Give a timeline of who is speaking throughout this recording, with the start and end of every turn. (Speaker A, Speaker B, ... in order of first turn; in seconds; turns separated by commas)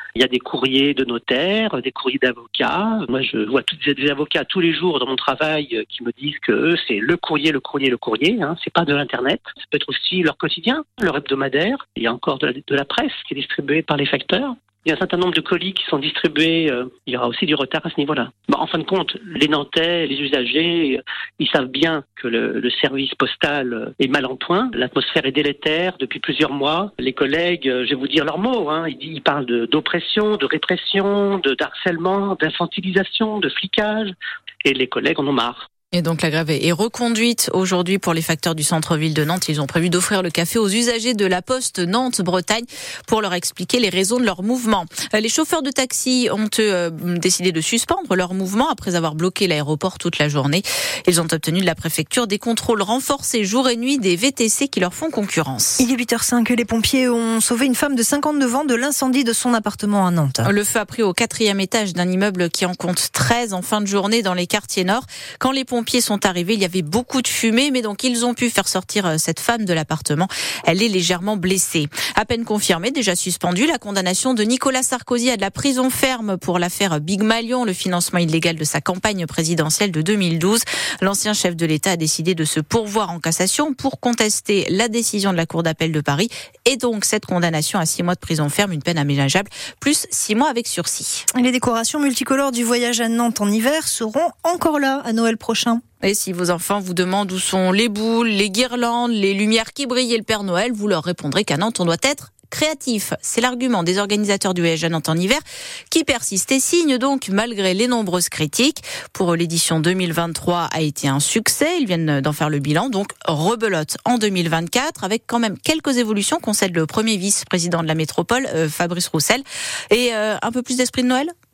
Speaker A: 0.2-35.7, Speaker B: 35.9-55.9, Speaker C: 55.8-60.5, Speaker B: 60.5-91.3, Speaker C: 91.3-95.8, Speaker B: 96.0-121.3